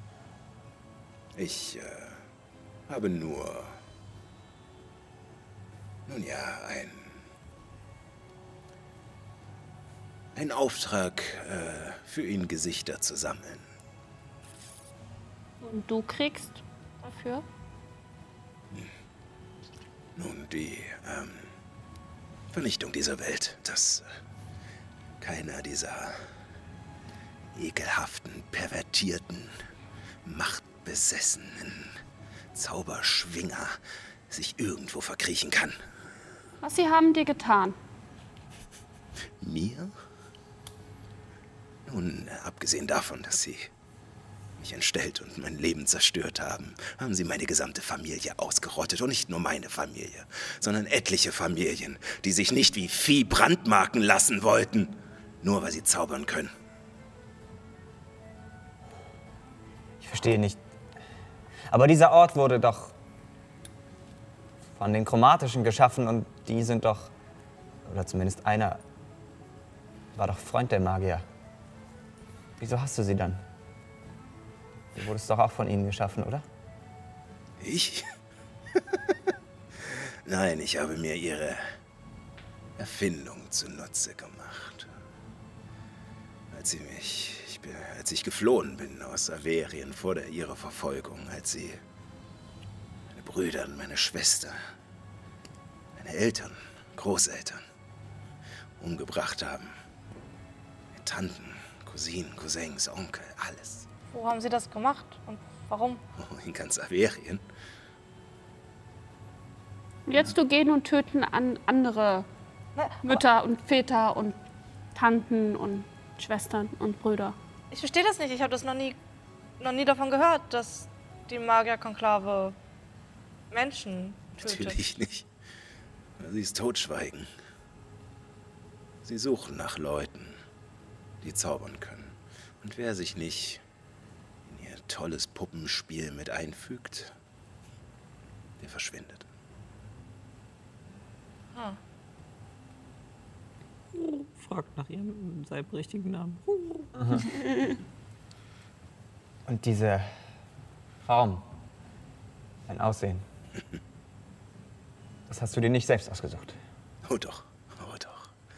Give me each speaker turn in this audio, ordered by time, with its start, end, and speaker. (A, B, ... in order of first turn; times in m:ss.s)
0:01.4-0:02.2 A
0:02.9-0:03.8 A
0:06.1-0:07.1 A
0:10.4-0:13.6 A
0:15.6-0:17.4 B
0:20.2-0:21.5 A
0:22.5-0:24.0 A
0:25.2-0:26.2 A
0:27.6-0:29.6 A
0:30.2-0:32.0 A
0:32.5-0:33.8 A
0:34.3-0:35.8 A
0:36.6-0:37.8 B
0:39.4-0:39.9 A
0:41.9-0:43.7 A
0:44.6-0:56.5 A
1:00.0-1:00.6 C
1:01.7-1:02.9 C
1:04.8-1:07.1 C
1:07.9-1:08.8 C
1:10.1-1:11.2 C
1:12.6-1:13.4 C
1:14.9-1:16.4 C
1:17.6-1:18.1 A
1:18.8-1:19.1 A
1:20.3-1:21.6 A
1:22.8-1:24.9 A
1:26.5-1:31.8 A
1:33.1-1:34.6 A
1:36.0-1:37.6 A
1:38.8-1:39.7 A
1:41.0-1:43.9 A
1:44.1-1:46.0 D
1:46.2-1:47.4 A
1:50.1-1:52.3 B
1:52.8-1:53.2 D
1:53.0-1:54.4 B
1:55.0-1:57.4 B
1:57.7-1:59.0 D
1:59.6-2:02.6 D
2:03.5-2:04.8 D
2:04.4-2:05.3 A
2:06.2-2:07.3 A
2:09.0-2:10.4 A
2:11.2-2:13.6 A
2:14.5-2:17.1 A
2:18.6-2:19.3 A
2:24.0-2:26.9 E
2:27.0-2:27.3 C
2:29.5-2:30.1 C
2:31.0-2:31.5 C
2:32.7-2:33.2 C
2:35.3-2:36.6 C
2:37.1-2:38.3 A